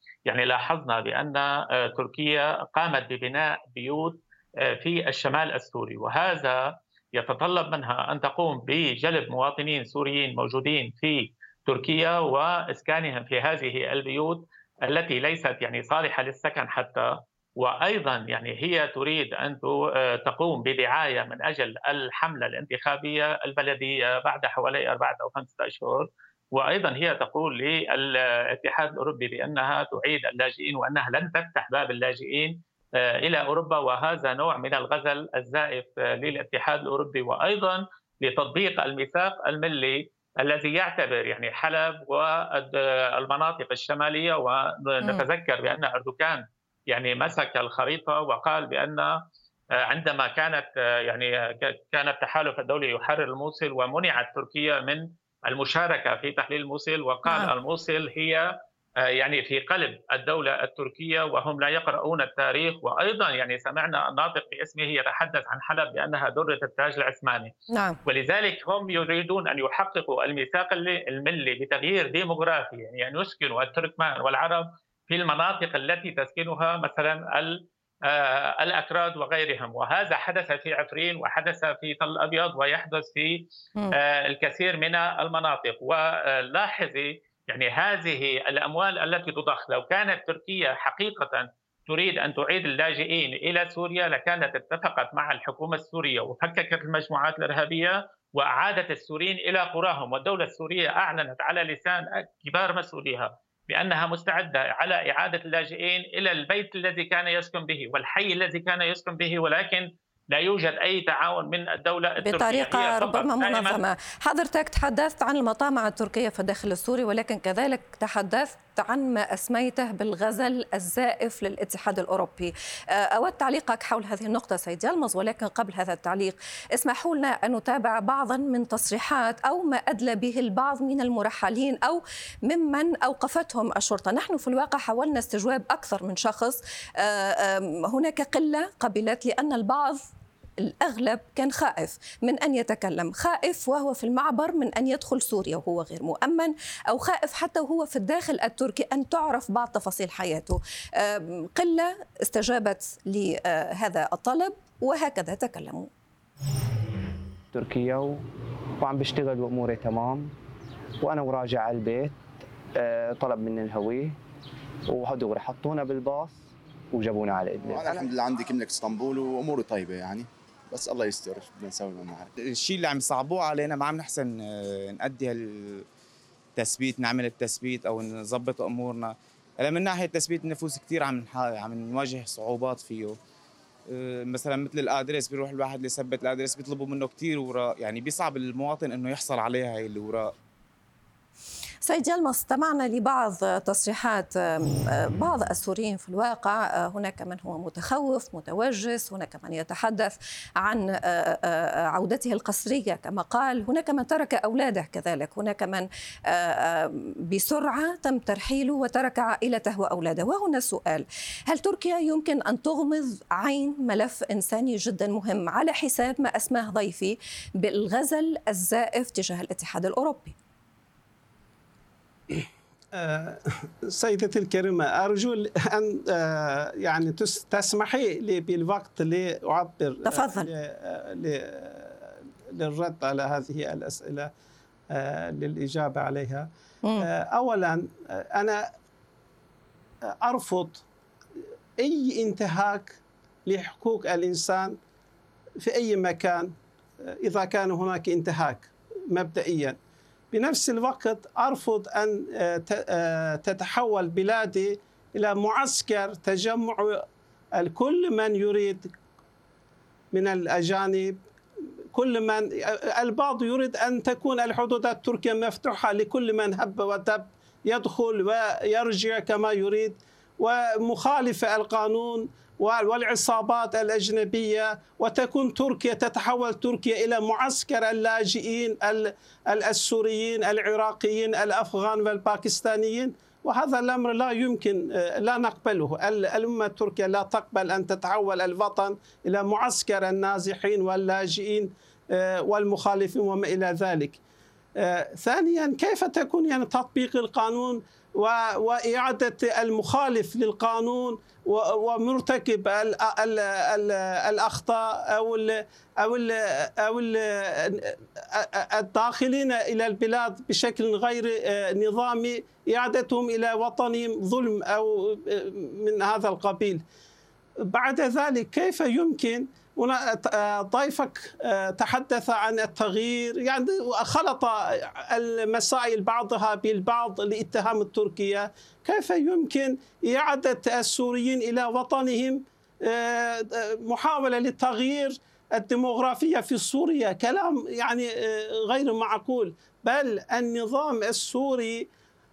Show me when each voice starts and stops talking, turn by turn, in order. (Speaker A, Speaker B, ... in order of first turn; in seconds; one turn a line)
Speaker A: 0.3-49.1
Speaker A: 49.8-58.5
Speaker B: 57.3-57.5
Speaker A: 59.0-67.5
Speaker B: 67.7-68.0
Speaker A: 68.0-113.8
Speaker B: 112.2-140.1
Speaker B: 140.6-155.9
Speaker C: 157.5-158.2
Speaker C: 158.8-160.3
Speaker C: 161.0-162.2
Speaker C: 162.8-164.2
Speaker C: 164.9-168.1
Speaker D: 167.6-172.3
Speaker E: 172.4-175.9
Speaker E: 176.6-183.2
Speaker E: 183.9-190.3
Speaker B: 191.8-220.4
Speaker F: 222.3-234.3
Speaker B: 230.1-230.5
Speaker F: 234.9-236.5
Speaker F: 237.0-238.7
Speaker F: 240.2-240.8
Speaker F: 241.8-244.8
Speaker F: 245.6-249.8
Speaker F: 250.3-257.1
Speaker F: 257.6-258.9
Speaker F: 260.1-261.2
Speaker F: 261.9-294.2
Speaker F: 294.8-316.8
Speaker F: 317.7-341.9